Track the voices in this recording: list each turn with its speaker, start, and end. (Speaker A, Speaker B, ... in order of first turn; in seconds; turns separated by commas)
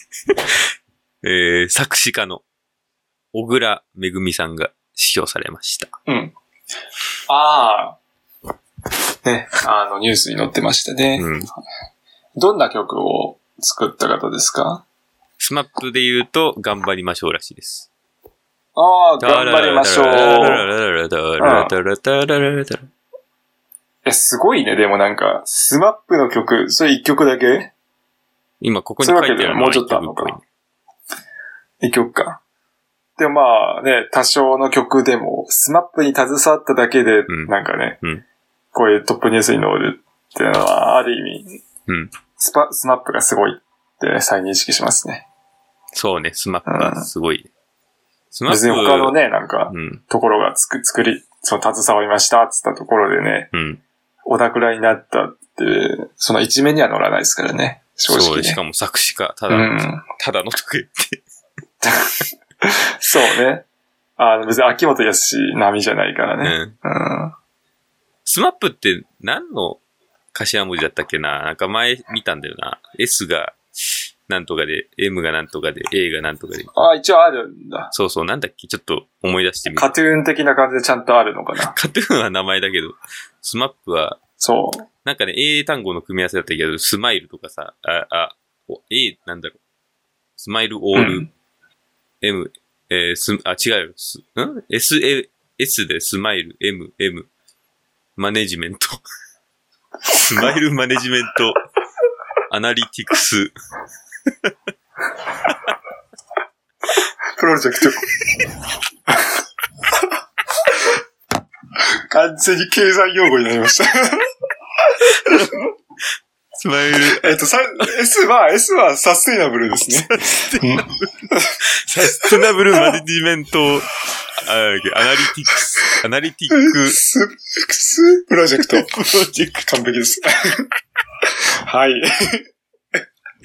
Speaker A: 1.2-2.4, Speaker A: 3.3-5.9, Speaker B: 6.1-6.3, Speaker B: 7.3-8.0, Speaker B: 9.2-11.3, Speaker A: 11.2-11.5, Speaker B: 12.4-14.8, Speaker A: 15.4-17.9, Speaker B: 18.8-20.7, Speaker A: 19.2-22.9, Speaker B: 21.4-21.7, Speaker B: 24.1-27.7, Speaker A: 28.6-30.4, Speaker B: 29.0-30.4, Speaker B: 31.8-32.4, Speaker B: 33.2-38.0, Speaker A: 37.3-38.2, Speaker B: 38.7-41.6, Speaker B: 42.4-45.3, Speaker A: 45.9-47.5, Speaker B: 46.7-47.1, Speaker A: 48.3-49.2, Speaker B: 48.5-53.5, Speaker A: 49.7-50.0, Speaker A: 53.5-53.8, Speaker B: 54.3-58.6, Speaker A: 58.1-61.2, Speaker B: 59.5-60.0, Speaker B: 61.8-62.1, Speaker B: 62.6-63.6, Speaker B: 64.2-67.3, Speaker A: 66.4-66.8, Speaker A: 68.3-69.8, Speaker A: 70.3-73.6, Speaker A: 74.3-76.7, Speaker B: 76.8-77.9, Speaker A: 77.9-79.9, Speaker B: 79.8-81.7, Speaker A: 81.7-84.2, Speaker B: 84.4-84.9, Speaker A: 85.0-89.6, Speaker A: 90.4-91.3, Speaker B: 91.0-91.3, Speaker A: 92.2-97.3, Speaker A: 98.2-99.0, Speaker A: 100.1-101.6, Speaker A: 102.5-103.5, Speaker B: 107.4-108.0, Speaker B: 112.1-114.3, Speaker A: 115.2-115.5, Speaker A: 116.6-117.4, Speaker B: 117.1-121.6, Speaker A: 119.9-121.3, Speaker A: 121.8-127.0, Speaker B: 122.1-123.0, Speaker B: 126.5-128.9, Speaker A: 128.7-129.7, Speaker B: 129.7-130.7, Speaker B: 131.7-132.4